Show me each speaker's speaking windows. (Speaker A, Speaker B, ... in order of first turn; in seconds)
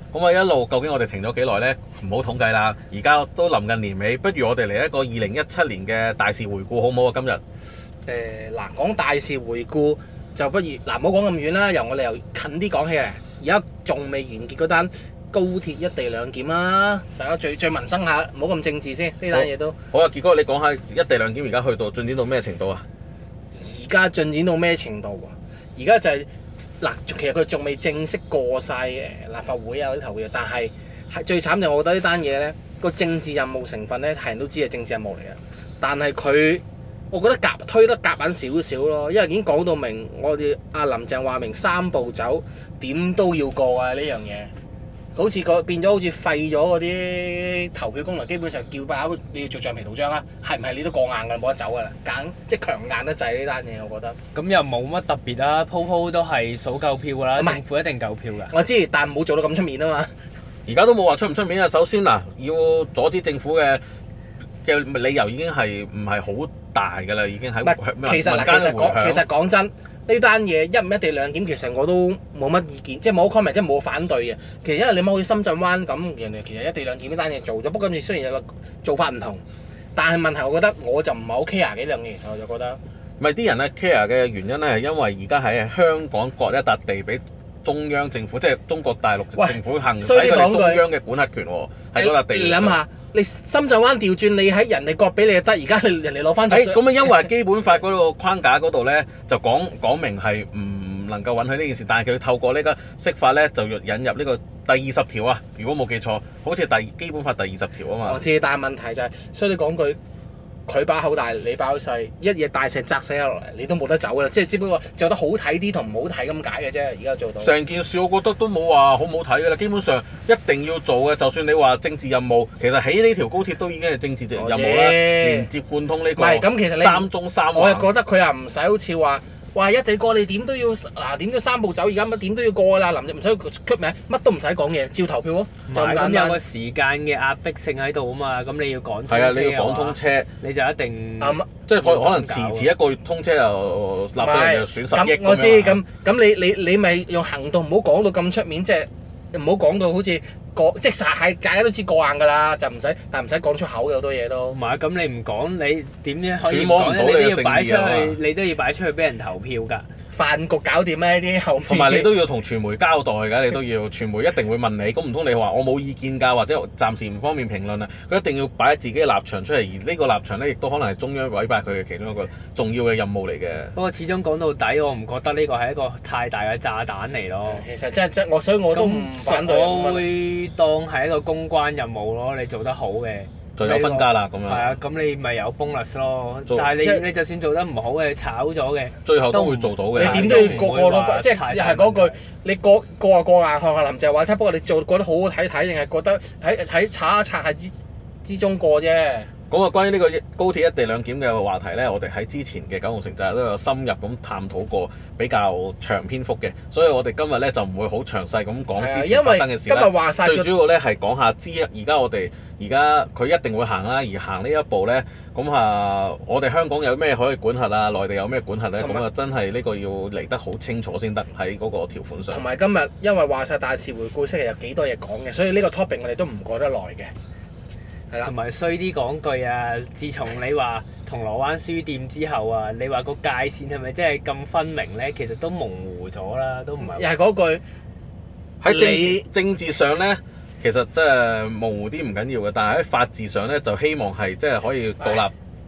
Speaker A: 0.1-7.4, 19.3-22.9, 60.7-63.8, 64.6-69.2, 83.2-92.8, 96.5-108.2, 117.4-127.9, 139.1-140.3, 141.7-145.8, 156.4-158.2, 161.7-173.7, 183.6-184.8, 189.1-190.7, 199.5-222.4, 238.6-245.3
Speaker B: 8.1-19.8, 23.6-44.5, 45.1-54.2, 57.4-57.6, 58.5-60.1, 67.6-79.4, 80.0-82.8, 89.4-90.8, 91.9-97.1, 108.0-110.0, 110.7-117.5, 124.3-125.5, 126.2-136.4, 141.2-141.5, 144.2-154.6, 160.1-162.1, 177.4-180.1, 190.0-199.3, 208.8-210.5, 218.8-219.0, 222.3-227.1, 236.8-237.6, 238.7-239.2
Speaker C: 54.3-58.5, 135.7-142.7, 154.5-159.9, 173.8-177.7, 178.7-192.2, 228.2-237.1